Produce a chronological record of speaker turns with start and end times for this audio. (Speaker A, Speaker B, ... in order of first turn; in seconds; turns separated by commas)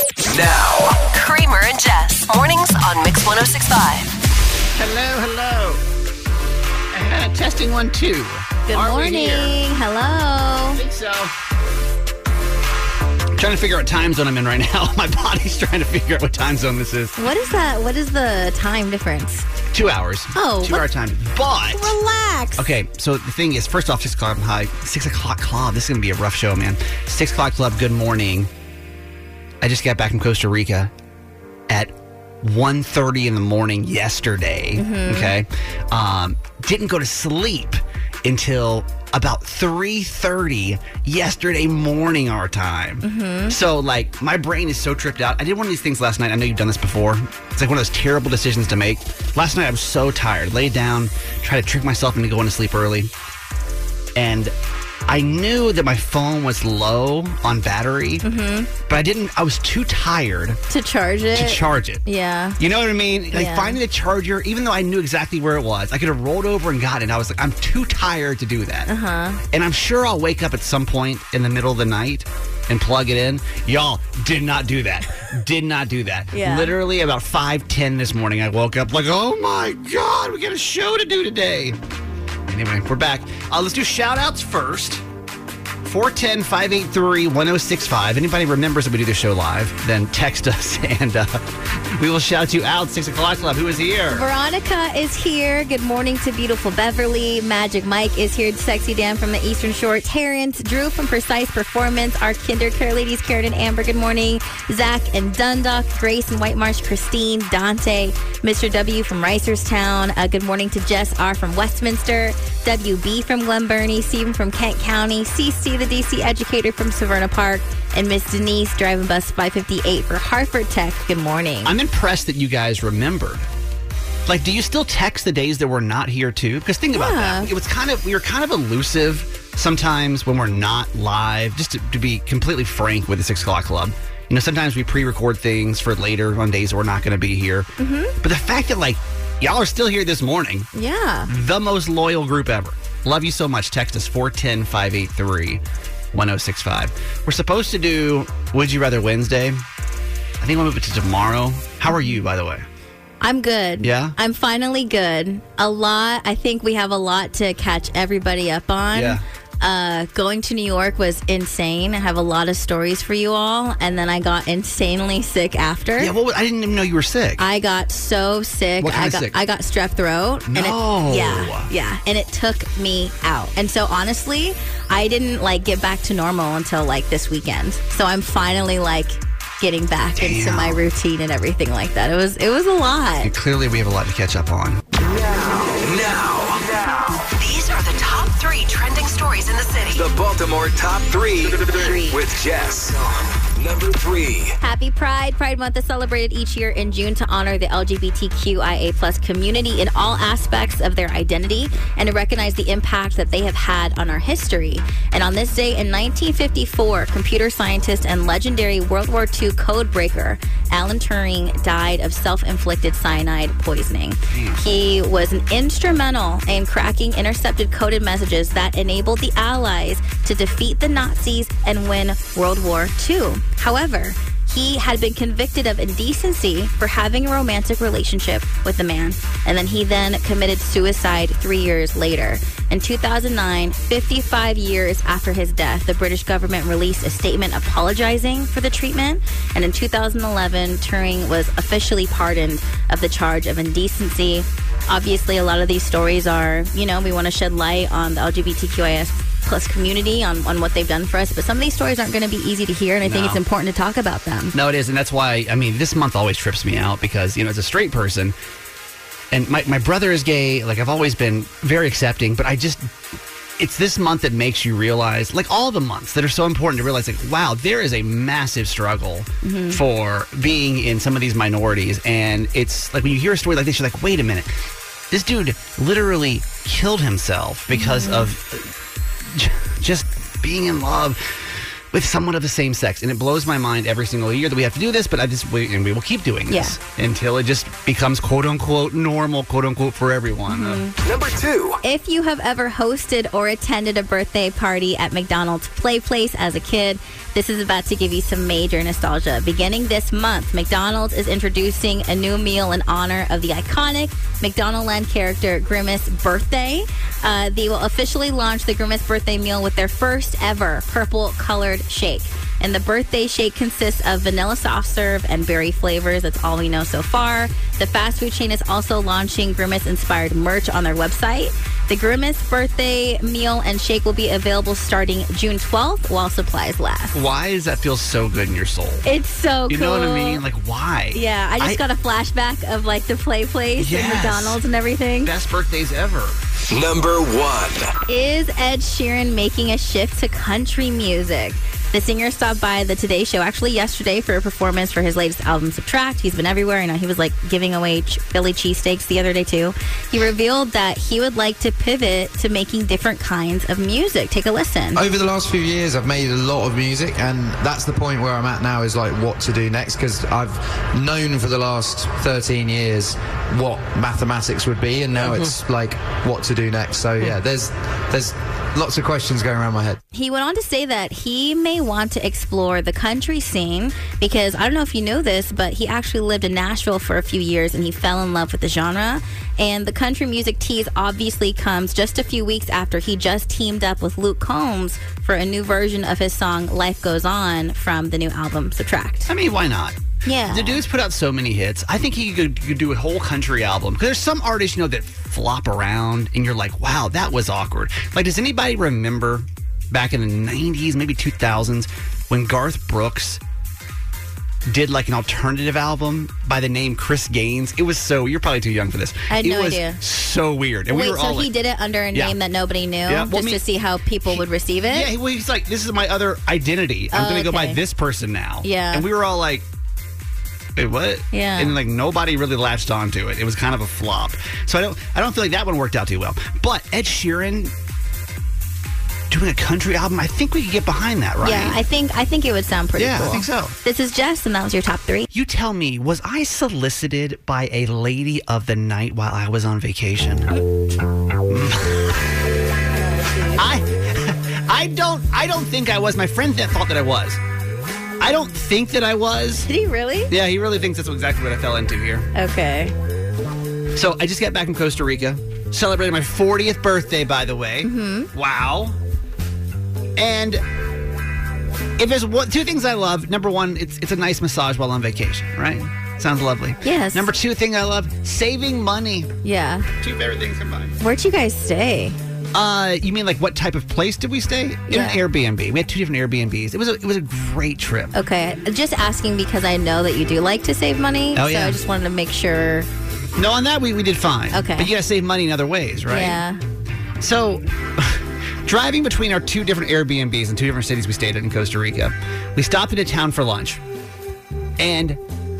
Speaker A: 0.2-1.0, Speaker B: 1.1-4.1, Speaker C: 4.8-5.8, Speaker C: 6.9-9.6, Speaker D: 8.7-10.8, Speaker C: 10.7-11.3, Speaker C: 13.4-17.2, Speaker D: 17.2-19.5, Speaker C: 19.7-21.9, Speaker D: 20.4-20.8, Speaker D: 21.7-22.6, Speaker C: 22.6-28.5, Speaker C: 29.6-30.9, Speaker C: 31.7-53.1, Speaker D: 34.8-35.4, Speaker D: 43.0-43.6, Speaker C: 54.2-54.5, Speaker C: 55.1-58.2, Speaker D: 58.2-58.7, Speaker C: 58.9-60.6, Speaker D: 60.7-62.6, Speaker C: 61.3-62.0, Speaker C: 62.6-68.9, Speaker D: 63.3-63.8, Speaker D: 68.9-69.4, Speaker C: 69.5-81.8, Speaker D: 76.3-76.7, Speaker C: 82.5-85.0, Speaker C: 85.8-91.4, Speaker C: 92.0-94.3, Speaker D: 94.1-121.7, Speaker C: 121.6-123.5, Speaker C: 124.3-137.7, Speaker D: 126.9-127.5, Speaker D: 137.8-138.2, Speaker C: 138.2-140.7, Speaker D: 140.7-141.3, Speaker C: 141.3-145.6, Speaker C: 146.1-149.6, Speaker C: 150.4-152.7, Speaker D: 151.9-152.2, Speaker D: 153.2-166.1, Speaker C: 153.8-154.2, Speaker C: 158.9-159.2, Speaker C: 166.0-167.4, Speaker D: 167.4-183.3, Speaker C: 168.8-169.4, Speaker C: 170.5-171.7, Speaker C: 180.2-180.8, Speaker C: 183.2-184.8, Speaker A: 185.0-187.2, Speaker B: 187.3-190.0, Speaker A: 189.9-194.6, Speaker D: 191.7-192.2, Speaker D: 194.6-254.6, Speaker C: 214.3-214.6, Speaker C: 253.0-253.4, Speaker C: 254.5-258.4, Speaker C: 259.3-262.9, Speaker C: 263.6-274.5, Speaker D: 269.4-269.8, Speaker C: 275.1-278.7, Speaker D: 277.7-278.3, Speaker C: 279.3-290.8, Speaker D: 286.5-286.8, Speaker D: 290.5-290.9, Speaker A: 291.0-291.8, Speaker D: 291.8-327.1, Speaker C: 327.1-329.1, Speaker D: 329.1-330.4, Speaker C: 329.7-331.8, Speaker D: 331.1-335.3, Speaker C: 333.8-334.6, Speaker C: 335.2-336.4, Speaker A: 336.7-337.9, Speaker D: 338.1-355.0, Speaker E: 354.9-370.0, Speaker D: 370.1-389.3, Speaker C: 389.3-390.0, Speaker D: 390.2-390.8, Speaker C: 390.5-403.4, Speaker C: 404.7-411.5, Speaker D: 409.3-410.0, Speaker D: 410.9-415.1, Speaker C: 413.1-413.6, Speaker C: 414.3-419.7, Speaker D: 417.1-417.8, Speaker D: 418.6-419.1, Speaker C: 420.8-427.7, Speaker D: 421.3-421.7, Speaker C: 429.3-431.8, Speaker D: 431.4-435.2, Speaker C: 433.0-433.8, Speaker C: 435.3-440.5, Speaker C: 441.5-442.2, Speaker D: 442.9-443.6, Speaker C: 443.6-447.4, Speaker C: 448.2-449.7, Speaker D: 449.6-450.3, Speaker C: 450.3-452.3, Speaker D: 452.4-452.9, Speaker C: 453.9-459.0, Speaker D: 457.8-458.3, Speaker C: 460.2-460.6, Speaker C: 462.0-469.3, Speaker D: 466.8-467.3, Speaker D: 469.4-469.9, Speaker C: 470.0-471.0, Speaker D: 471.0-472.2, Speaker C: 472.5-478.1, Speaker D: 474.9-475.2, Speaker D: 478.1-482.9, Speaker C: 481.4-481.8, Speaker C: 483.4-486.4, Speaker D: 484.5-484.9, Speaker D: 486.1-486.6, Speaker C: 487.2-493.8, Speaker C: 494.8-495.2